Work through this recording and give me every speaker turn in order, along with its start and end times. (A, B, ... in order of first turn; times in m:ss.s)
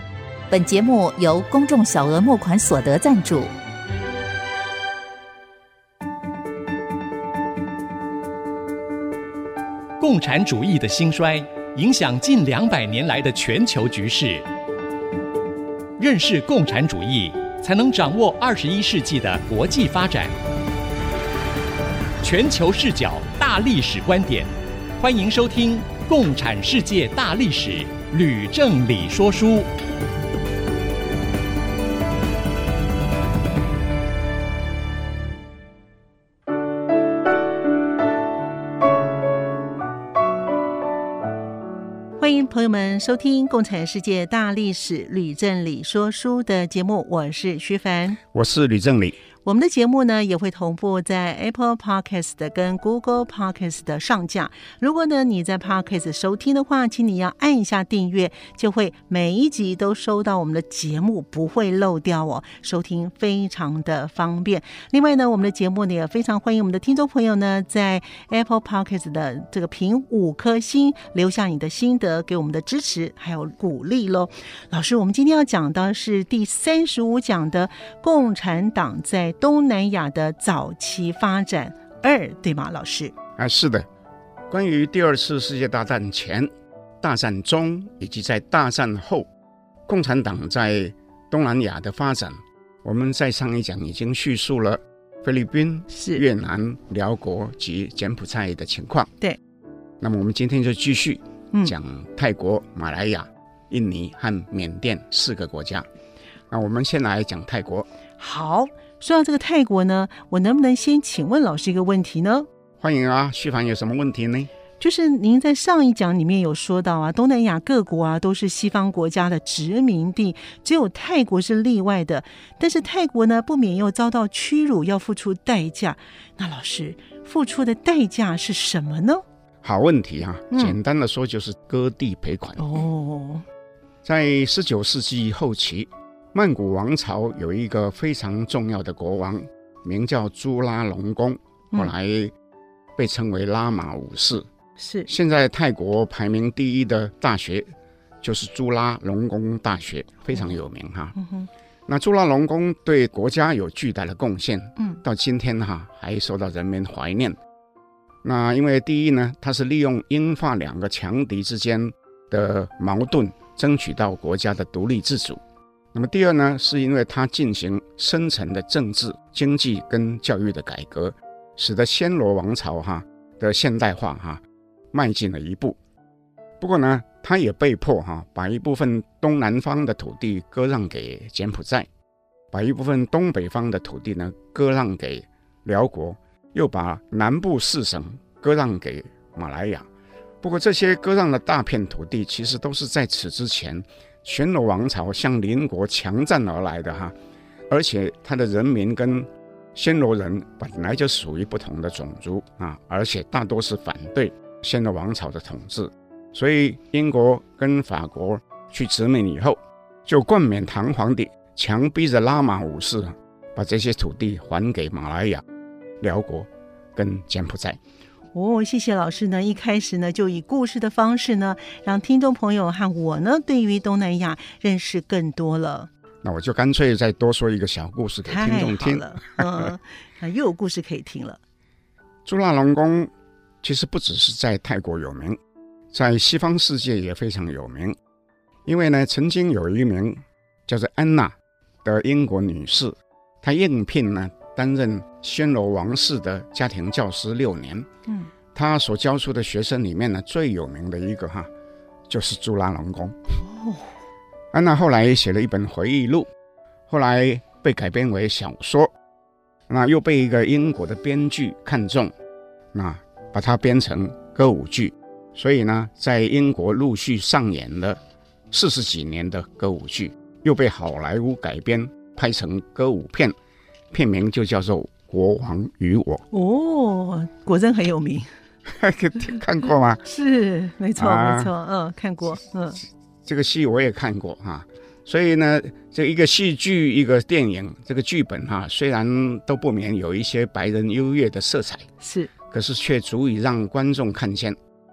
0:00.5-0:03.5 A
0:10.0-0:14.4 B
0:16.0-0:20.3 B
0:22.2-0:29.7 B
0:42.2-0:48.2 C
0:48.2-0:49.2 D
0:49.4-1:23.1 C
1:23.4-1:23.8 D
1:24.5-1:29.3 D
1:29.8-1:39.1 D
1:35.9-1:36.2 C
1:40.0-1:45.9 D
1:46.5-1:47.9 D
1:48.2-1:52.5 C
1:52.8-1:54.5 D
1:54.8-2:09.2 C
2:09.6-2:12.8 D
2:10.5-2:10.8 C
2:12.6-2:13.4 C
2:14.0-2:22.3 D
2:23.0-2:24.5 D
2:24.8-2:25.1 C
2:25.1-2:31.1 D
2:31.1-2:31.5 C
2:31.9-2:37.4 D
2:34.8-2:35.0 C
2:38.2-2:45.4 D
2:45.9-2:55.8 D
2:56.6-3:01.9 D
3:02.5-3:09.9 D
3:10.4-3:17.2 D
3:17.7-3:35.4 D
3:36.0-3:37.8 D
3:38.3-3:45.9 C
3:46.2-3:49.7 D
3:48.3-3:51.4 C
3:52.2-3:53.1 D
3:53.6-3:55.4 D
3:55.9-3:58.0 D
3:58.6-4:07.9 D
4:08.5-4:11.5 D
4:12.1-4:13.4 D
4:13.4-4:13.9 C
4:14.5-4:16.3 D
4:16.9-4:18.9 D
4:19.7-4:22.1 D
4:22.7-4:28.0 D
4:28.5-4:33.3 D
4:33.9-4:36.2 D
4:36.3-4:38.3 C
4:38.7-4:40.0 D
4:40.0-4:42.8 C
4:41.0-4:41.5 D
4:43.2-4:51.9 D
4:52.0-4:52.3 C
4:52.5-4:54.6 D